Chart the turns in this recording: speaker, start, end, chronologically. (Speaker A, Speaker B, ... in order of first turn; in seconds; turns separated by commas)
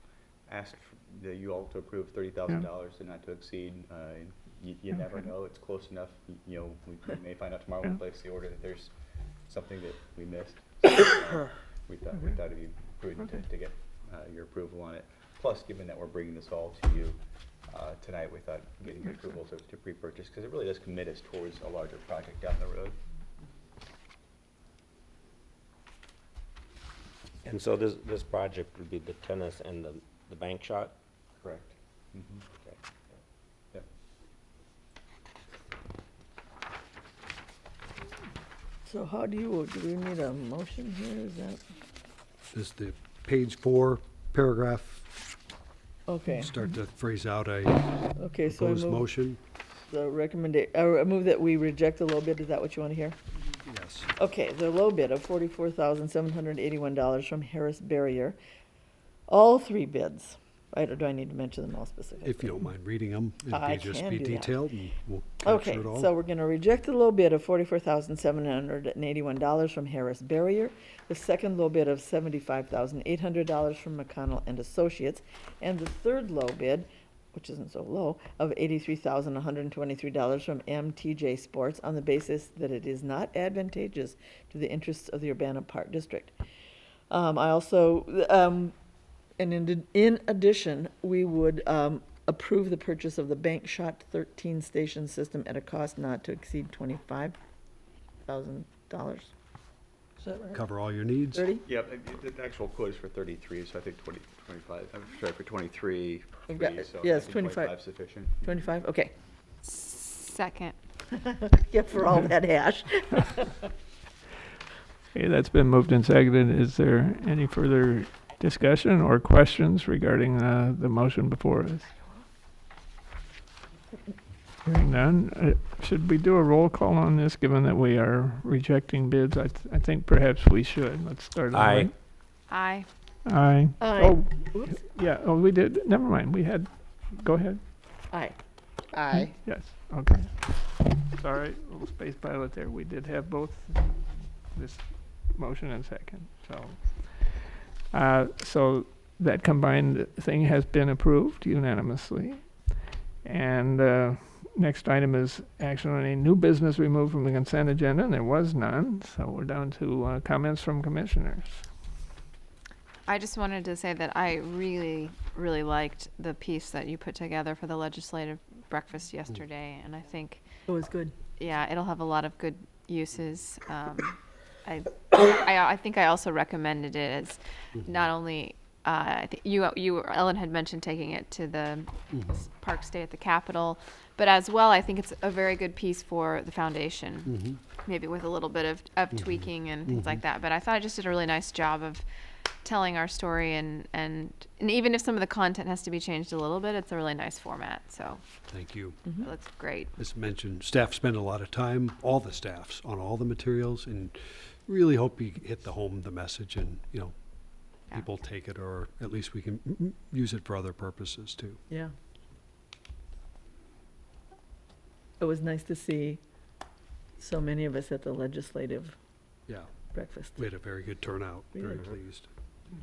Speaker A: 0.5-8.9, Speaker A: 9.5-17.2, Speaker B: 13.2-13.4, Speaker A: 17.7-23.0, Speaker B: 19.1-19.4, Speaker C: 27.4-30.9, Speaker A: 31.4-32.7, Speaker D: 38.9-41.6, Speaker E: 42.5-45.2, Speaker D: 46.1-46.5, Speaker E: 46.3-49.4, Speaker D: 48.2-49.1, Speaker D: 49.9-53.2, Speaker E: 53.6-54.1, Speaker D: 54.2-58.4, Speaker D: 59.3-62.7, Speaker E: 62.2-66.1, Speaker D: 63.5-64.5, Speaker D: 65.4-86.3, Speaker D: 87.1-88.7, Speaker D: 89.4-97.3, Speaker D: 98.3-99.3, Speaker D: 100.2-100.6, Speaker E: 100.5-101.5, Speaker D: 101.3-101.6, Speaker A: 101.7-108.5, Speaker D: 106.5-107.8, Speaker D: 108.4-109.1, Speaker F: 109.6-110.8, Speaker D: 111.1-113.7, Speaker B: 115.1-121.9, Speaker B: 124.7-131.9, Speaker C: 131.5-131.9, Speaker F: 132.5-132.9, Speaker B: 133.2-137.6, Speaker D: 133.8-134.8, Speaker D: 138.1-138.4, Speaker D: 138.9-139.2, Speaker B: 139.1-161.7, Speaker F: 163.1-170.4, Speaker D: 170.7-171.1, Speaker F: 171.4-192.0, Speaker E: 177.8-178.1, Speaker E: 182.1-182.4, Speaker E: 187.3-187.6, Speaker E: 189.1-190.2, Speaker F: 192.6-198.2, Speaker E: 198.5-199.1, Speaker F: 199.2-199.9, Speaker E: 200.0-207.2, Speaker E: 207.8-211.6, Speaker D: 215.2-216.2, Speaker D: 217.2-219.0, Speaker D: 219.9-220.4, Speaker E: 220.3-222.3, Speaker D: 221.6-221.9